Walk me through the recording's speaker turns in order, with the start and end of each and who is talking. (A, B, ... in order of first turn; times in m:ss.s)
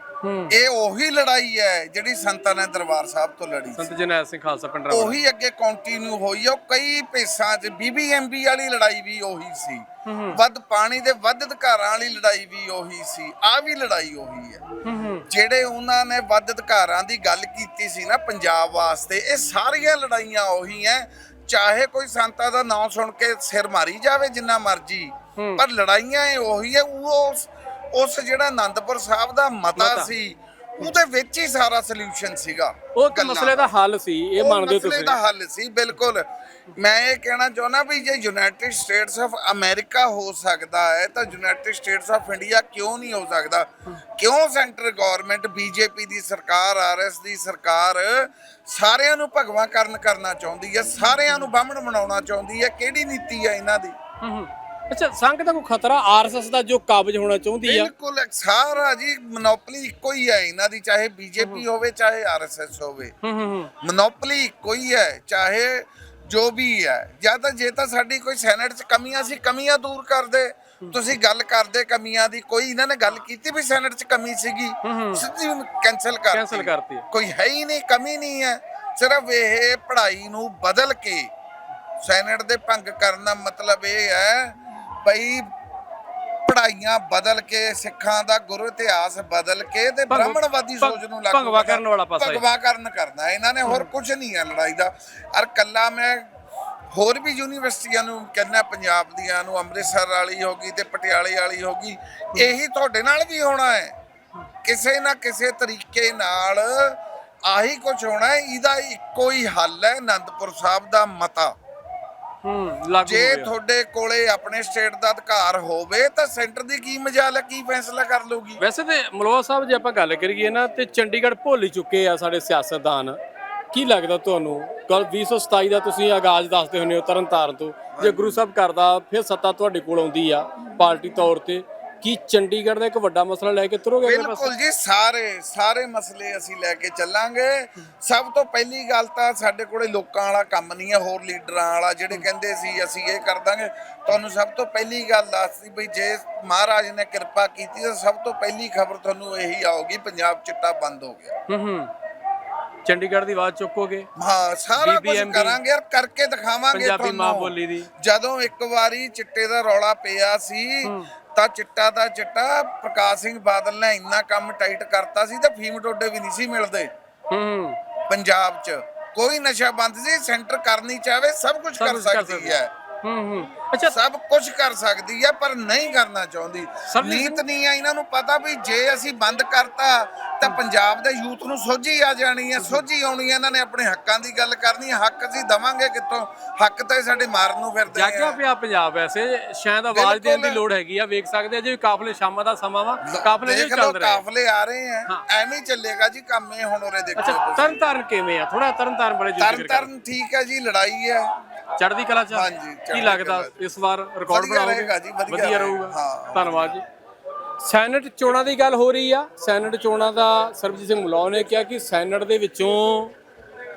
0:00.2-0:00.6 A
0:00.5-0:03.9 B
0:03.7-0:05.2 A
0:04.9-0:14.6 B
0:10.0-0:10.4 A
0:14.8-0:15.2 A
0:15.3-0:33.7 B
0:25.4-0:25.6 A
0:29.8-0:30.1 A
0:32.9-0:35.2 A
0:34.4-0:53.9 B
0:54.2-0:57.9 A
0:57.6-1:03.1 B
1:03.2-1:03.7 A
1:03.8-1:21.3 B
1:14.8-1:15.2 A
1:16.3-1:17.0 A
1:22.0-1:25.5 B
1:26.4-1:36.2 B
1:30.1-1:32.4 A
1:36.9-1:43.9 B
1:44.6-1:51.5 B
1:52.4-1:53.5 A
1:53.0-1:58.6 B
1:58.6-2:03.2 A
2:03.7-2:14.5 A
2:08.0-2:08.4 B
2:14.0-2:31.3 B
2:31.5-2:31.9 A
2:32.8-2:34.1 A
2:34.2-2:46.9 B
2:34.8-2:35.6 A
2:36.7-2:37.9 A
2:40.8-2:41.1 A
2:47.3-2:47.8 A
2:48.1-2:52.7 B
2:51.8-2:53.9 A
2:53.8-3:08.4 B
2:56.9-2:57.4 A
3:02.6-3:02.8 A
3:07.9-3:14.2 A
3:09.9-3:10.6 B
3:13.1-3:17.8 B
3:17.2-3:19.9 A
3:19.4-3:21.3 B
3:21.8-3:26.8 A
3:22.3-3:23.6 B
3:24.3-3:26.8 B
3:27.6-3:33.1 A